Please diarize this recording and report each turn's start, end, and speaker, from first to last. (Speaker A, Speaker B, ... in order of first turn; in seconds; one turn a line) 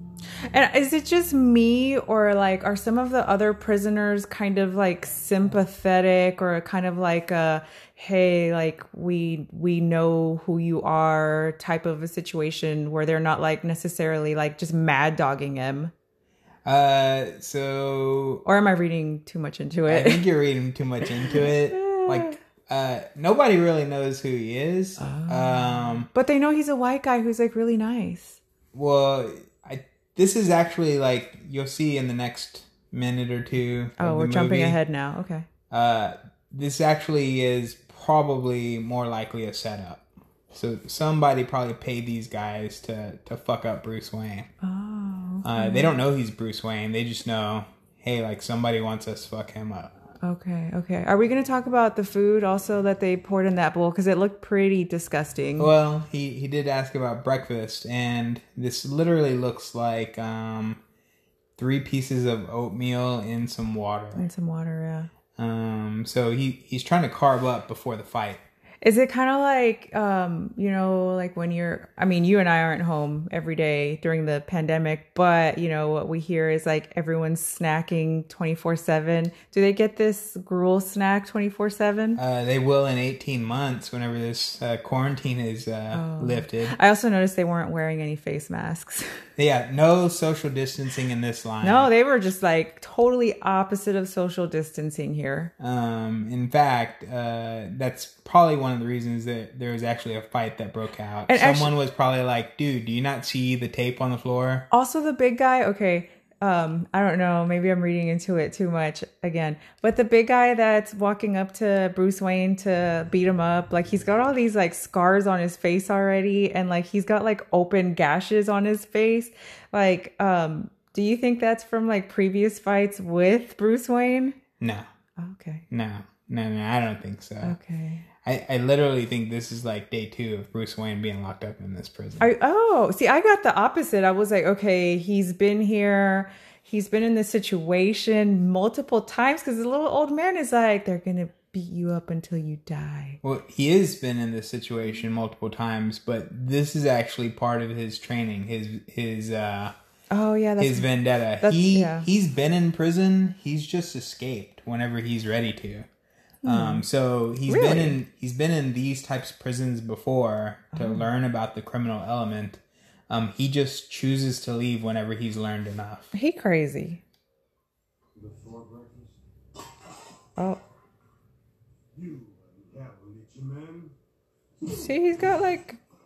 Speaker A: 0.5-15.9
Speaker B: 16.7-18.4
Speaker A: 18.4-20.3
Speaker B: 19.9-26.1
Speaker A: 21.0-22.4
Speaker A: 25.0-28.4
Speaker B: 28.7-34.8
Speaker A: 34.0-35.5
Speaker B: 35.7-44.5
Speaker A: 44.6-46.0
Speaker B: 45.4-49.9
Speaker A: 50.2-55.7
Speaker B: 55.6-60.8
Speaker B: 61.6-64.2
Speaker A: 64.2-65.1
Speaker B: 65.3-68.4
Speaker A: 68.8-82.2
Speaker B: 82.2-86.7
Speaker A: 85.9-89.1
Speaker B: 89.4-91.9
Speaker A: 91.6-95.5
Speaker B: 95.6-104.7
Speaker A: 101.3-101.8
Speaker A: 104.7-124.4
Speaker B: 124.6-124.8
Speaker A: 125.2-125.7
Speaker B: 125.7-127.5
Speaker A: 127.4-128.1
Speaker B: 128.2-132.3
Speaker A: 132.2-143.2
Speaker B: 143.2-149.7
Speaker A: 150.1-150.9
Speaker B: 150.6-155.9
Speaker A: 151.4-152.1
Speaker A: 156.4-156.8
Speaker B: 156.5-166.1
Speaker A: 157.5-158.0
Speaker A: 160.7-161.1
Speaker A: 166.1-167.0
Speaker C: 168.2-169.2
Speaker C: 171.9-173.9
Speaker A: 174.7-175.8